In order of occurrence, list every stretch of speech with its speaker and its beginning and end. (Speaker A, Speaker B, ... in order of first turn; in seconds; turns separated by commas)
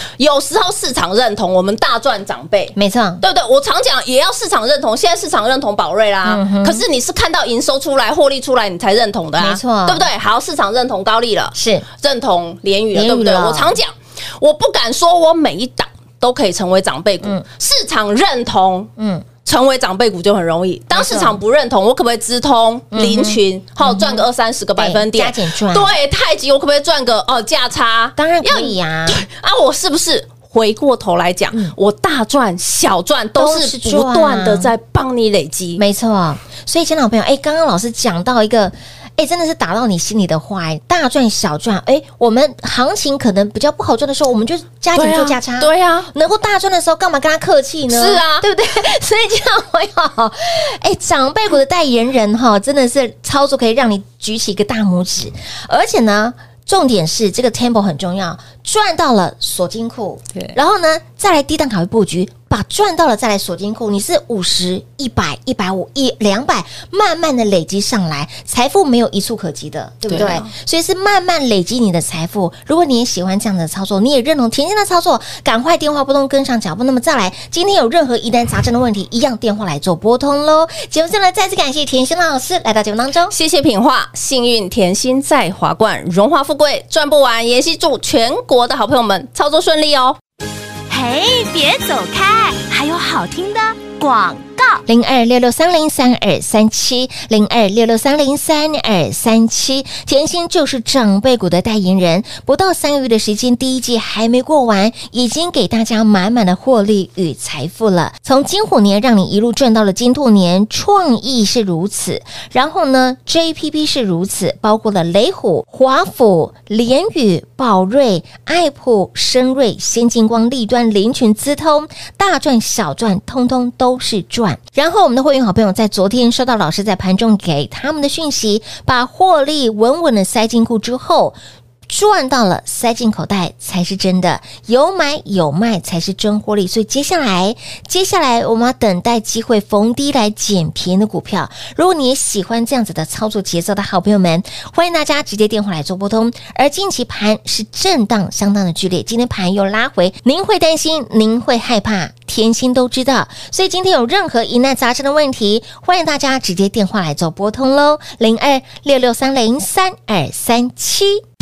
Speaker A: 0.2-18.9, Speaker B: 2.7-3.2, Speaker B: 6.2-6.8, Speaker B: 9.4-10.1, Speaker B: 11.5-11.8, Speaker B: 12.9-13.8, Speaker B: 19.0-19.3, Speaker A: 19.4-35.8, Speaker B: 20.9-21.4, Speaker B: 22.9-25.9, Speaker B: 28.1-29.2, Speaker B: 33.4-34.7, Speaker B: 35.8-83.3, Speaker A: 45.0-46.1, Speaker A: 47.9-48.5, Speaker A: 70.1-70.5, Speaker A: 83.3-90.2, Speaker C: 90.9-94.8, Speaker B: 94.8-161.2